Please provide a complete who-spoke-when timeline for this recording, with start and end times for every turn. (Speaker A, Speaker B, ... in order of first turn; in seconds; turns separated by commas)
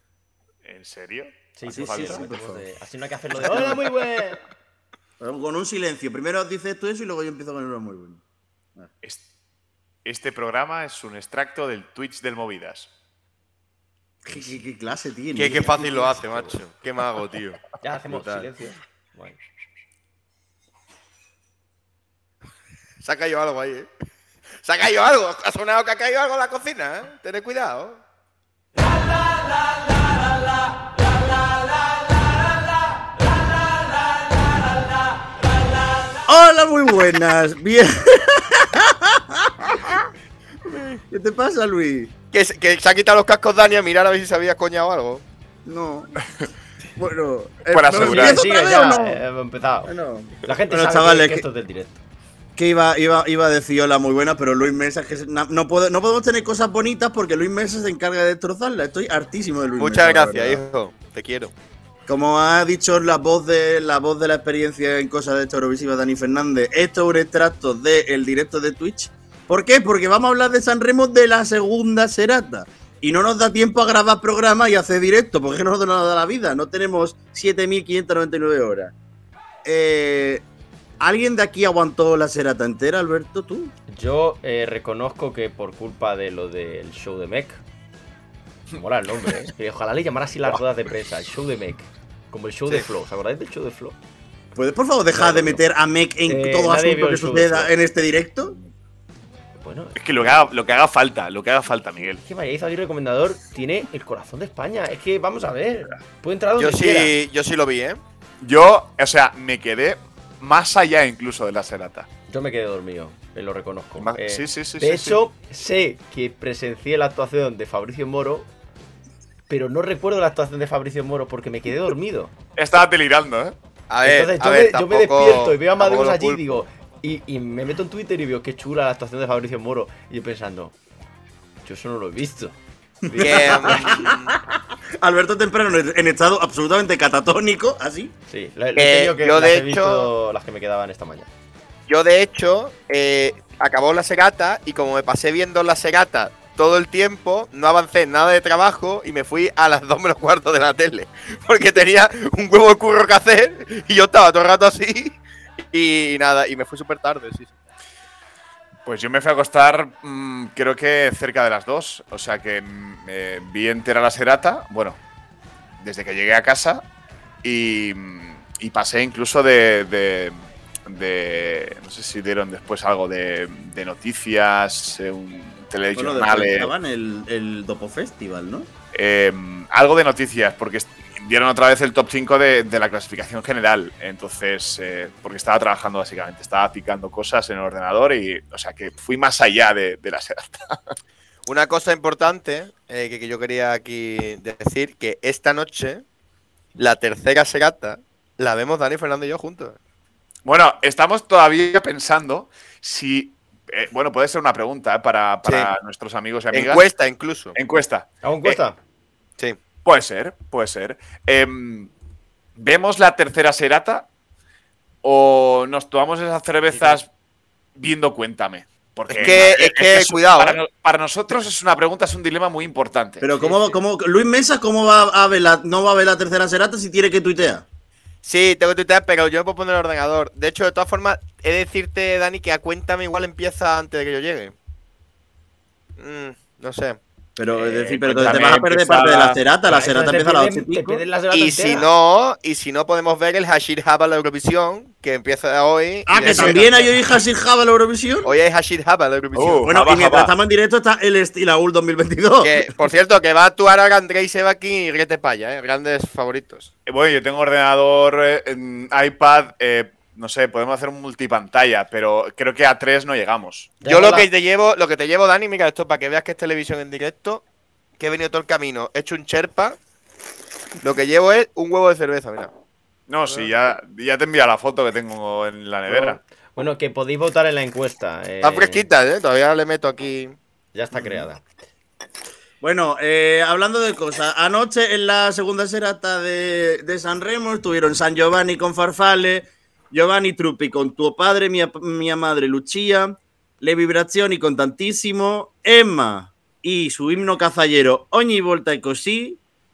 Speaker A: 0.7-2.3, Speaker B: 1.6-4.4, Speaker C: 1.7-2.6, Speaker A: 3.5-3.8, Speaker C: 5.2-8.2, Speaker A: 10.1-12.9, Speaker C: 14.2-16.2, Speaker D: 15.3-18.5, Speaker B: 17.8-19.4, Speaker D: 23.0-23.9, Speaker D: 24.6-28.0, Speaker C: 36.3-40.1, Speaker C: 41.1-42.1, Speaker D: 42.3-45.2, Speaker C: 45.7-46.1, Speaker C: 47.0-49.2, Speaker A: 47.7-48.4, Speaker B: 47.9-52.0, Speaker C: 49.9-51.5, Speaker C: 52.6-60.6, Speaker D: 59.8-61.5, Speaker C: 62.1-78.9, Speaker C: 79.7-80.4, Speaker C: 81.0-83.7, Speaker B: 83.9-87.6, Speaker B: 88.8-94.0, Speaker C: 94.5-98.5, Speaker B: 95.1-95.6, Speaker B: 96.3-97.7, Speaker B: 99.6-100.4, Speaker A: 100.0-102.2, Speaker B: 102.2-107.1, Speaker D: 106.6-108.0, Speaker A: 108.4-112.1, Speaker B: 112.3-118.5, Speaker A: 114.0-115.2, Speaker B: 119.5-122.3, Speaker A: 122.6-123.5, Speaker D: 123.9-126.6, Speaker B: 124.0-130.8, Speaker B: 131.7-134.1, Speaker C: 133.1-138.1, Speaker D: 133.2-134.4, Speaker B: 138.3-141.3, Speaker D: 138.8-140.1, Speaker D: 141.9-157.5, Speaker A: 158.8-165.0, Speaker A: 165.8-166.8, Speaker A: 167.4-176.7, Speaker C: 175.9-178.7, Speaker A: 178.9-190.6, Speaker D: 191.5-196.0, Speaker D: 196.8-199.8, Speaker A: 200.4-206.9, Speaker D: 205.4-205.7, Speaker D: 206.5-207.6, Speaker A: 207.6-208.5, Speaker B: 208.2-208.8, Speaker A: 209.8-211.9, Speaker A: 212.6-214.1, Speaker A: 215.0-217.1, Speaker A: 217.8-223.3, Speaker D: 219.1-220.6, Speaker C: 223.2-227.7, Speaker D: 223.4-223.7, Speaker D: 228.2-234.5, Speaker D: 236.0-237.0, Speaker C: 237.4-241.0, Speaker A: 237.9-239.4, Speaker B: 239.7-241.9, Speaker D: 241.3-246.6, Speaker C: 246.1-248.3, Speaker B: 246.2-246.9, Speaker D: 248.2-249.7, Speaker A: 249.3-250.3, Speaker C: 249.7-252.7, Speaker D: 252.4-256.7, Speaker A: 256.9-263.8, Speaker B: 263.8-264.3, Speaker D: 263.9-267.4, Speaker D: 268.0-269.8, Speaker D: 270.8-272.5, Speaker A: 273.1-276.2, Speaker B: 275.9-278.9, Speaker D: 278.4-280.4, Speaker B: 280.7-281.4, Speaker C: 280.9-281.2, Speaker C: 282.6-299.4